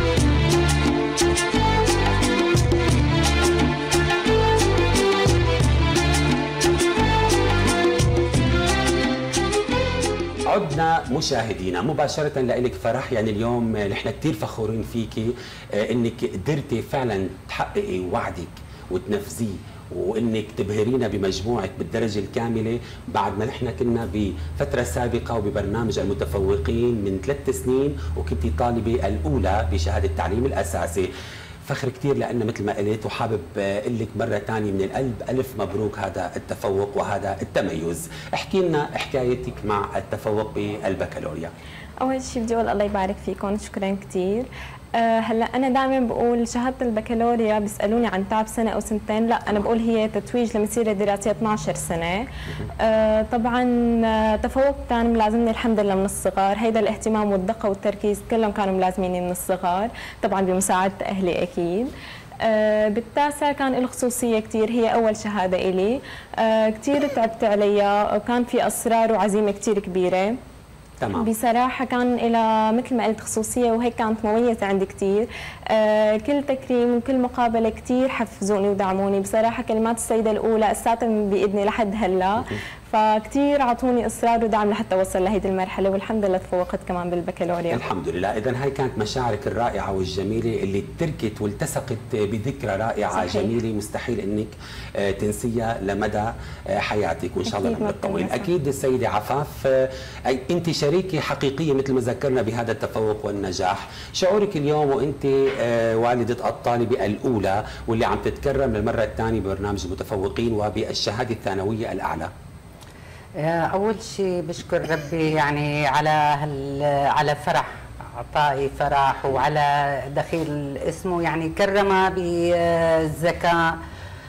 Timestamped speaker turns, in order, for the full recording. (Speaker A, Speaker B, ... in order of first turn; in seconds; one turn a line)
Speaker A: 10.5-31.1
Speaker A: 31.6-41.5
Speaker B: 42.0-61.9
Speaker B: 62.4-70.4
Speaker A: 71.0-71.3
Speaker B: 71.1-87.8
Speaker A: 87.7-112.3
Speaker B: 93.1-93.5
Speaker B: 97.5-98.5
Speaker C: 113.3-123.8